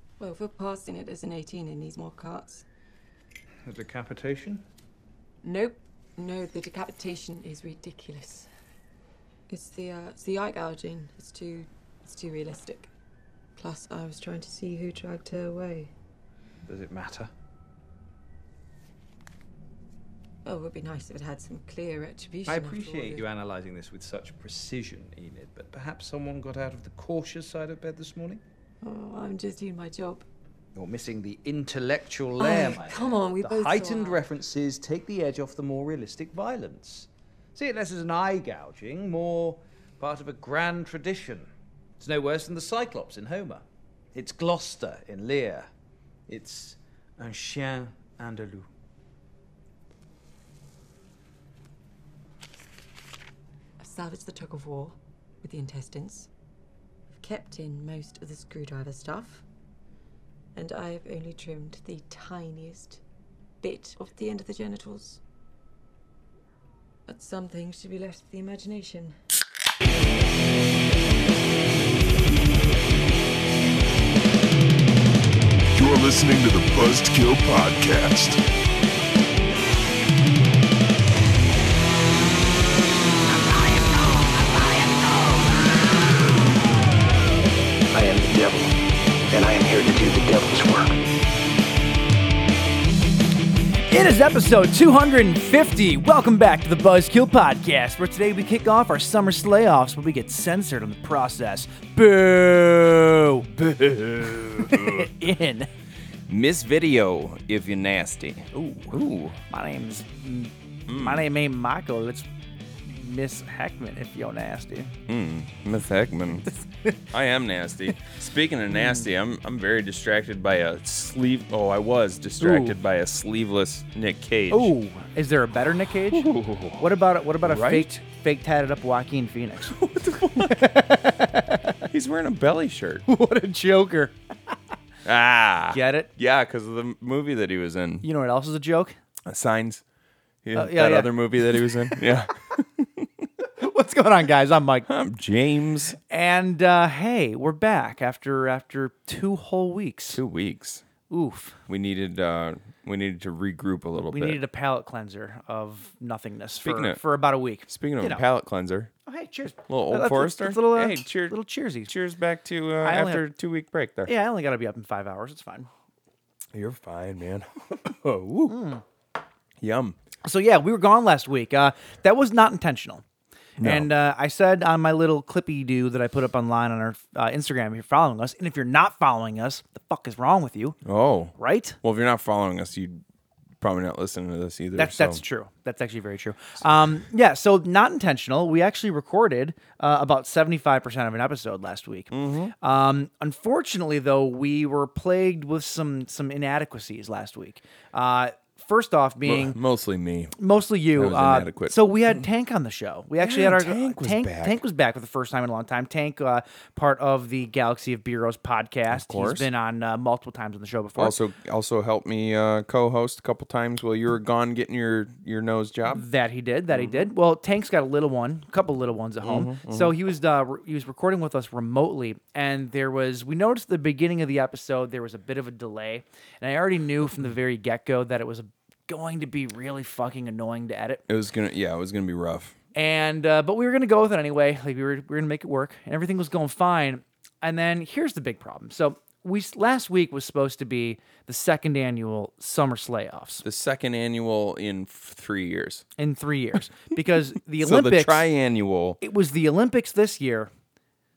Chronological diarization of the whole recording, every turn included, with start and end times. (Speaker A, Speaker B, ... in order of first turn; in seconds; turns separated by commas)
Speaker A: 0.2-2.6, Speaker B: 3.6-4.6, Speaker A: 5.4-8.5, Speaker A: 9.5-12.9, Speaker A: 13.6-15.9, Speaker B: 16.6-17.3, Speaker A: 20.4-23.2, Speaker B: 22.5-28.4, Speaker A: 28.8-30.2, Speaker B: 30.7-45.7, Speaker A: 32.4-34.2, Speaker B: 46.3-48.7, Speaker A: 53.8-56.3, Speaker A: 57.1-59.4, Speaker A: 60.5-63.0, Speaker A: 63.6-65.2, Speaker A: 67.1-69.2, Speaker C: 75.7-78.4, Speaker D: 87.9-88.8, Speaker D: 89.3-91.0, Speaker E: 93.8-103.5, Speaker F: 103.5-105.2, Speaker E: 104.5-105.7, Speaker F: 106.3-109.4, Speaker E: 108.5-112.2, Speaker F: 110.9-111.3, Speaker E: 112.8-114.9, Speaker F: 115.1-116.5, Speaker F: 117.1-124.7, Speaker E: 118.7-119.0, Speaker E: 122.4-122.8, Speaker E: 124.5-131.6, Speaker F: 126.1-126.9, Speaker F: 127.4-127.9, Speaker F: 129.7-130.7, Speaker F: 131.9-133.0, Speaker E: 133.1-134.1, Speaker F: 135.0-138.1, Speaker E: 135.7-136.1, Speaker E: 138.0-138.9, Speaker F: 139.2-139.8, Speaker F: 140.4-143.2, Speaker E: 140.5-142.0, Speaker E: 143.6-144.9, Speaker F: 144.9-145.9, Speaker E: 146.0-150.2, Speaker F: 150.1-150.8, Speaker E: 151.1-151.6, Speaker F: 151.7-154.4, Speaker E: 154.1-158.2, Speaker F: 156.6-157.0, Speaker F: 157.7-158.9, Speaker E: 159.1-161.9, Speaker F: 159.7-161.3, Speaker F: 161.9-164.1, Speaker E: 162.8-163.3, Speaker E: 164.1-165.7, Speaker F: 166.5-168.6, Speaker E: 168.5-168.8, Speaker F: 169.6-170.0, Speaker E: 170.2-173.0, Speaker E: 173.6-180.8, Speaker F: 173.6-173.9, Speaker F: 180.8-183.0, Speaker E: 181.3-181.8, Speaker F: 183.6-185.2, Speaker E: 184.8-199.6, Speaker F: 192.1-192.5, Speaker F: 199.2-200.3, Speaker E: 200.4-211.2, Speaker F: 200.9-202.2, Speaker F: 203.2-204.6, Speaker F: 208.9-209.5, Speaker F: 211.0-216.0, Speaker E: 215.9-231.0, Speaker F: 216.7-217.1, Speaker F: 219.2-219.9, Speaker F: 231.1-232.5, Speaker E: 232.7-243.4, Speaker F: 243.4-245.8, Speaker E: 246.0-248.3, Speaker F: 247.6-249.0, Speaker E: 249.0-250.5